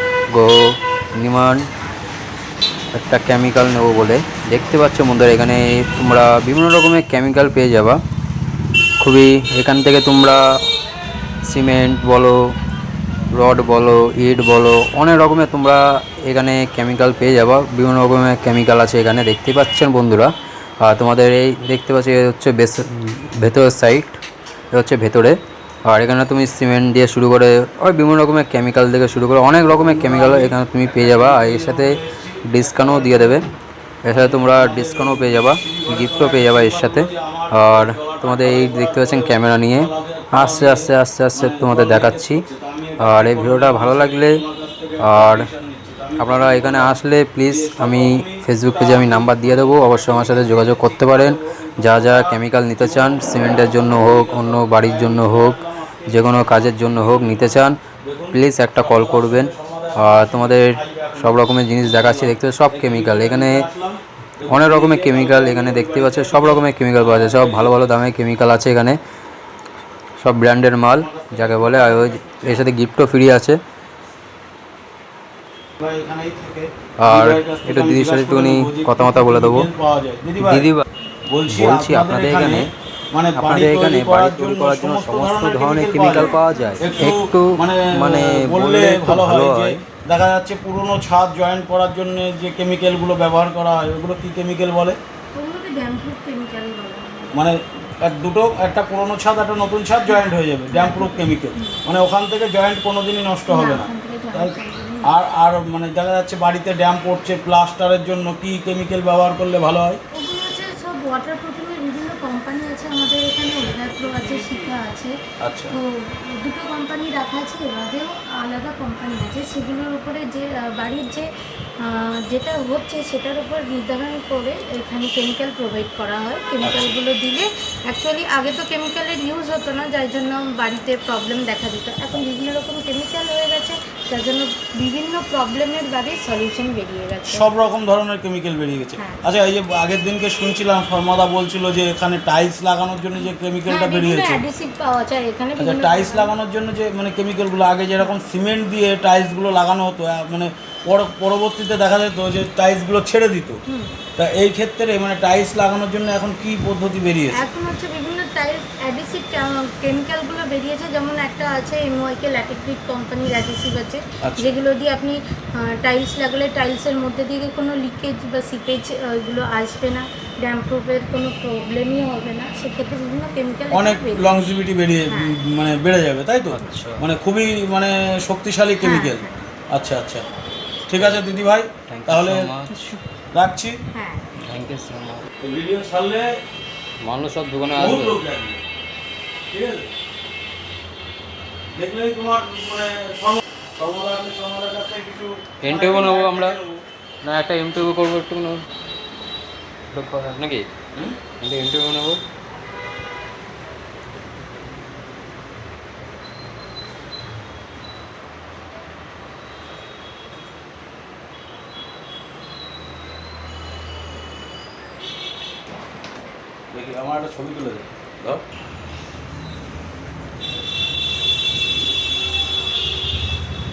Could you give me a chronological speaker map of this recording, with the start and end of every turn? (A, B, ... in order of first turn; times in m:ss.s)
0:00.3-0:00.6 A
0:01.2-0:01.7 A
0:02.9-0:08.0 A
0:09.0-0:10.4 A
0:11.5-0:12.4 A
0:13.3-0:20.3 A
0:20.8-0:24.2 A
0:24.7-0:33.4 A
0:29.7-0:33.4 B
0:34.0-0:42.4 A
0:34.1-1:07.8 B
0:43.0-0:44.4 A
0:45.0-0:45.5 A
0:46.2-0:57.8 A
0:58.3-1:03.6 A
1:04.5-1:09.0 A
1:10.2-1:13.6 A
1:10.9-1:12.7 B
1:15.8-1:20.7 B
1:17.0-1:19.7 A
1:20.4-1:20.8 A
1:21.3-1:35.0 B
1:21.5-1:22.7 A
1:23.4-1:29.8 A
1:25.9-1:27.2 C
1:35.3-1:37.4 C
1:37.3-1:50.0 B
1:40.1-1:41.9 C
1:43.5-1:45.2 C
1:50.1-1:55.2 C
1:55.4-1:55.8 B
1:55.7-2:17.4 C
2:06.6-2:06.9 B
2:17.3-2:24.4 B
2:19.0-2:19.2 C
2:23.2-2:26.3 C
2:25.6-2:33.6 B
2:33.7-2:34.0 C
2:34.2-2:37.4 B
2:37.3-2:54.4 C
2:44.2-2:44.5 B
2:53.7-3:00.2 B
2:55.1-2:55.4 C
2:56.5-2:57.0 A
2:58.8-2:59.4 C
3:00.9-3:02.5 B
3:00.9-3:01.2 A
3:01.9-3:03.0 A
3:02.7-3:03.0 C
3:03.3-3:03.8 B
3:03.9-3:04.3 C
3:04.4-3:05.3 A
3:05.4-3:06.4 B
3:07.0-3:08.2 A
3:07.8-3:08.6 B
3:09.5-3:09.9 B
3:11.7-3:16.8 B
3:15.6-3:16.6 A
3:17.2-3:18.6 A
3:19.9-3:20.7 A
3:21.4-3:22.2 A
3:36.7-3:38.4 B